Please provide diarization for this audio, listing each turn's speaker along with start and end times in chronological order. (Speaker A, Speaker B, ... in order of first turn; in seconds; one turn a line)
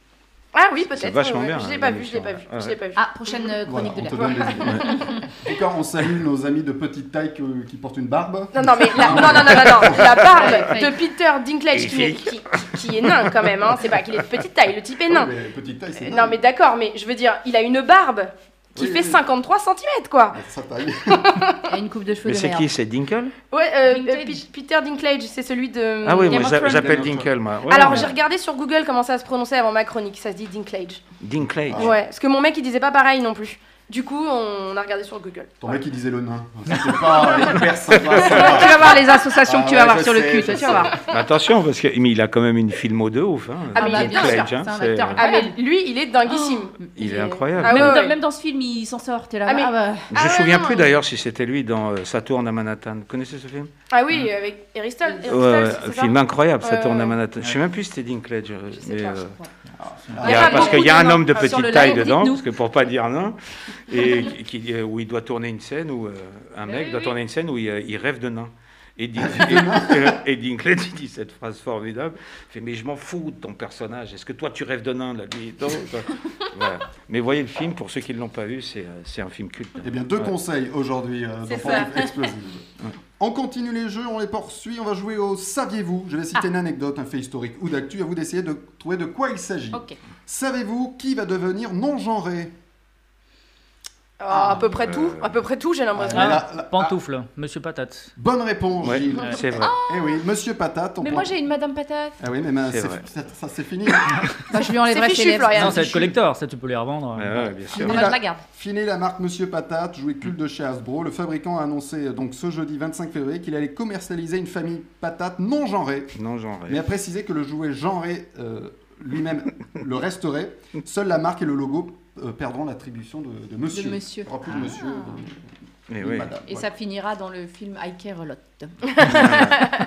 Speaker A: 0.5-3.0
Speaker B: 0.8-2.8
Speaker C: 3.0-5.2
Speaker D: 3.6-10.5
Speaker A: 4.2-5.1
Speaker A: 8.5-15.3
Speaker C: 10.3-10.9
Speaker B: 11.7-14.1
Speaker D: 15.1-16.4
Speaker A: 16.0-20.4
Speaker D: 18.8-19.2
Speaker D: 20.3-21.4
Speaker A: 21.1-21.6
Speaker C: 21.7-22.7
Speaker B: 22.2-23.3
Speaker A: 23.5-27.0
Speaker C: 23.9-24.4
Speaker B: 26.0-28.1
Speaker D: 26.4-27.3
Speaker A: 27.7-31.0
Speaker B: 31.2-31.9
Speaker D: 31.7-31.9
Speaker A: 31.8-35.8
Speaker D: 35.6-38.9
Speaker A: 37.2-37.6
Speaker B: 37.9-38.6
Speaker C: 38.3-41.0
Speaker D: 39.4-41.0
Speaker B: 41.1-45.2
Speaker A: 43.8-44.4
Speaker C: 43.8-45.6
Speaker A: 45.2-48.1
Speaker C: 46.3-50.1
Speaker B: 47.0-48.0
Speaker A: 49.5-50.9
Speaker B: 50.1-53.7
Speaker A: 53.9-57.2
Speaker C: 55.0-55.4
Speaker B: 55.3-59.4
Speaker C: 58.8-59.5
Speaker D: 59.8-60.8
Speaker B: 60.2-80.3
Speaker C: 60.2-62.4
Speaker A: 60.2-61.9
Speaker C: 66.7-67.1
Speaker D: 69.2-70.2
Speaker D: 79.8-92.5
Speaker A: 81.5-82.1
Speaker A: 94.2-96.4
Speaker C: 94.4-94.7
Speaker B: 94.8-95.4
Speaker D: 96.0-97.0
Speaker E: 96.1-98.1
Speaker D: 98.2-101.3
Speaker B: 98.8-99.7
Speaker C: 99.6-100.2
Speaker C: 101.0-102.2
Speaker D: 102.2-104.2
Speaker B: 102.7-103.0
Speaker C: 104.5-105.9
Speaker A: 104.8-106.2
Speaker E: 105.5-107.4
Speaker B: 107.2-108.0
Speaker D: 107.7-116.1
Speaker C: 107.7-108.4
Speaker B: 116.2-116.8
Speaker D: 116.7-125.5
Speaker C: 123.7-125.2
Speaker B: 125.9-126.3
Speaker D: 126.0-126.7
Speaker C: 126.5-128.9
Speaker B: 129.0-129.6